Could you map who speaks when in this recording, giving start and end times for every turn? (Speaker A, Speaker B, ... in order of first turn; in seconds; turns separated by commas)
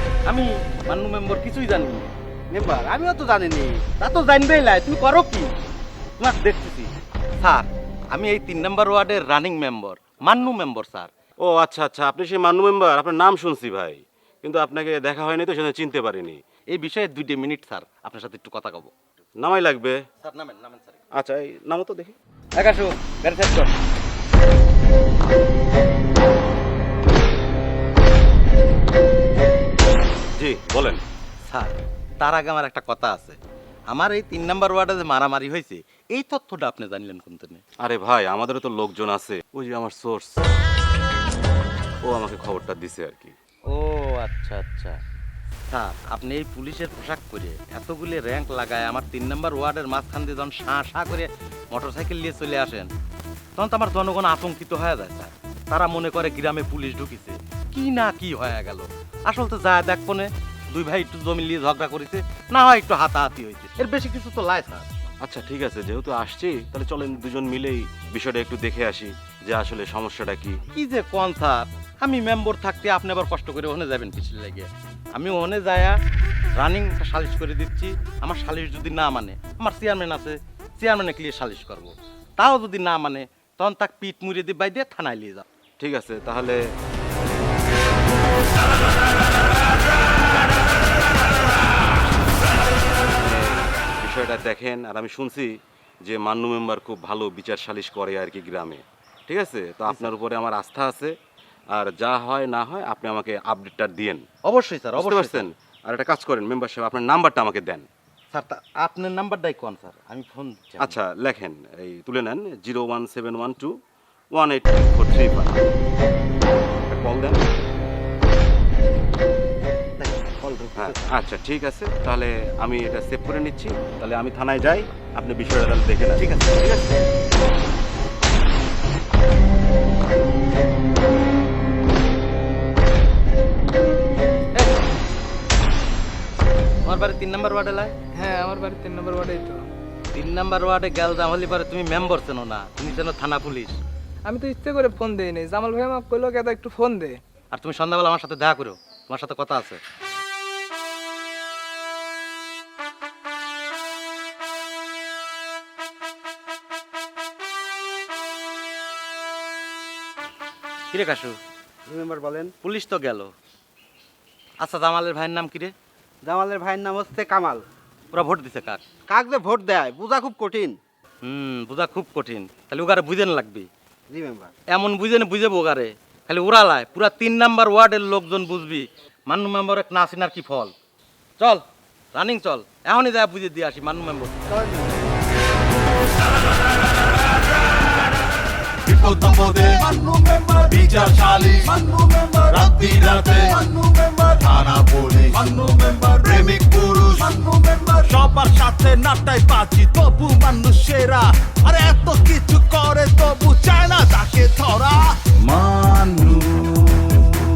Speaker A: 0.3-2.1, Speaker B: 2.5-3.8, Speaker A: 4.0-5.6, Speaker A: 6.2-11.1, Speaker C: 11.4-16.4, Speaker A: 16.7-18.9, Speaker C: 19.4-20.0, Speaker A: 20.2-21.0, Speaker C: 21.1-22.1, Speaker A: 22.6-23.8, Speaker C: 30.4-31.0, Speaker A: 31.5-33.4, Speaker A: 33.9-37.6, Speaker C: 37.8-40.4, Speaker C: 42.0-43.4, Speaker A: 43.7-45.0, Speaker A: 45.7-52.9, Speaker A: 53.6-64.9, Speaker C: 65.2-70.6, Speaker A: 70.7-76.0, Speaker A: 76.5-85.5, Speaker C: 85.8-86.6, Speaker C: 93.2-95.5, Speaker C: 96.0-101.2, Speaker C: 101.7-104.3, Speaker A: 104.5-105.5, Speaker C: 105.0-107.9, Speaker A: 108.3-111.0, Speaker C: 110.8-113.7, Speaker C: 114.3-115.7, Speaker C: 116.9-117.4, Speaker A: 120.0-121.1, Speaker C: 120.8-126.9, Speaker A: 126.2-126.8, Speaker A: 134.6-134.8, Speaker A: 136.8-137.9, Speaker D: 138.2-139.6, Speaker A: 140.1-143.8, Speaker D: 144.3-147.2, Speaker A: 147.5-149.8, Speaker A: 160.9-161.4, Speaker B: 161.9-162.5, Speaker A: 162.6-163.3, Speaker A: 164.6-165.7, Speaker B: 166.2-167.6, Speaker A: 168.1-168.8, Speaker B: 169.1-170.8, Speaker A: 171.2-173.7, Speaker B: 174.1-174.5, Speaker A: 174.7-180.7, Speaker A: 181.4-184.5, Speaker B: 184.5-185.1, Speaker E: 188.9-204.9, Speaker E: 205.5-207.0